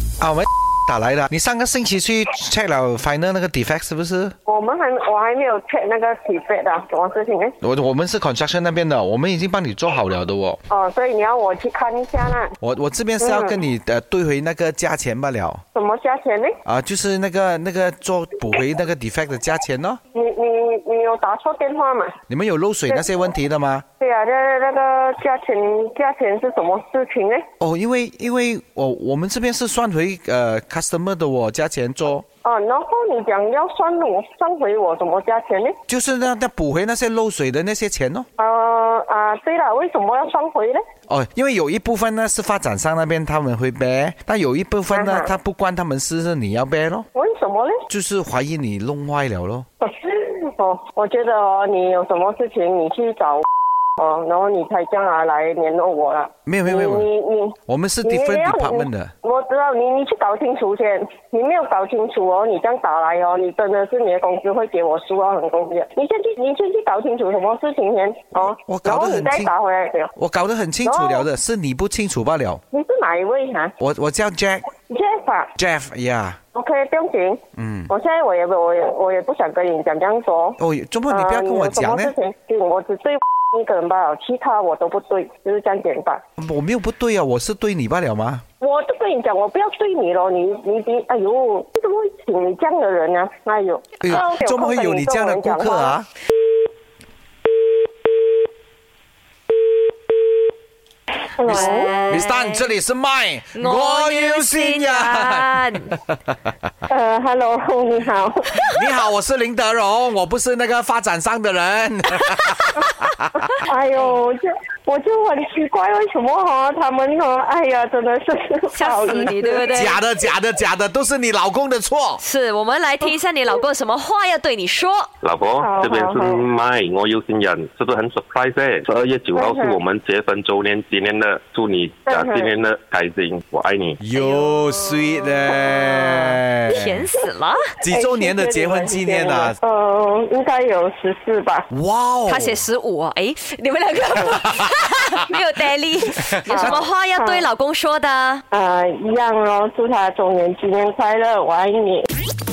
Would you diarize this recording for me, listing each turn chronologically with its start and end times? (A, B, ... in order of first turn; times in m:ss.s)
0:00.2-0:04.3 A
0:04.4-0:07.6 B
0:07.6-0:10.6 A
0:10.7-0:12.6 B
0:12.6-0:15.6 A
0:13.2-0:13.6 B
0:15.7-0:16.6 B
0:16.6-0:20.0 A
0:20.1-0:22.1 B
0:22.3-0:23.8 A
0:24.0-0:27.4 B
0:27.6-0:32.2 A
0:32.4-0:35.8 B
0:35.9-0:38.3 A
0:38.4-0:40.8 B
0:41.1-0:47.1 A
0:44.9-0:45.3 B
0:47.1-0:47.8 B
0:47.9-0:49.6 A
0:49.8-0:53.4 B
0:54.0-1:10.1 B
0:56.4-0:57.1 A
0:57.7-0:59.1 A
1:08.5-1:09.5 A
1:10.1-1:12.6 A
1:10.8-1:11.3 B
1:12.7-1:13.7 B
1:13.8-1:14.6 A
1:14.9-1:15.5 B
1:15.6-1:16.4 A
1:16.5-1:26.2 B
1:17.5-1:17.9 A
1:20.6-1:22.1 A
1:26.4-1:28.4 A
1:28.6-1:36.0 B
1:34.0-1:36.1 A
1:41.4-1:41.9 B
1:41.4-1:46.5 A
1:41.4-1:42.7 C
1:43.5-1:45.9 C
1:46.9-1:48.7 B
1:48.6-1:53.5 A
1:53.6-1:59.7 B
1:58.7-2:00.0 C
1:59.7-2:02.2 A
2:02.2-2:05.1 C
2:05.2-2:14.0 D
2:05.6-2:06.4 B
2:09.3-2:09.8 B
2:12.1-2:12.5 B
2:14.0-2:17.1 A
2:14.2-2:17.7 C
2:17.8-2:19.6 A
2:17.8-2:21.7 B
2:21.7-2:22.6 A
2:22.3-2:28.4 C
2:26.4-2:26.8 A
2:26.5-2:27.4 B
2:28.5-2:32.0 B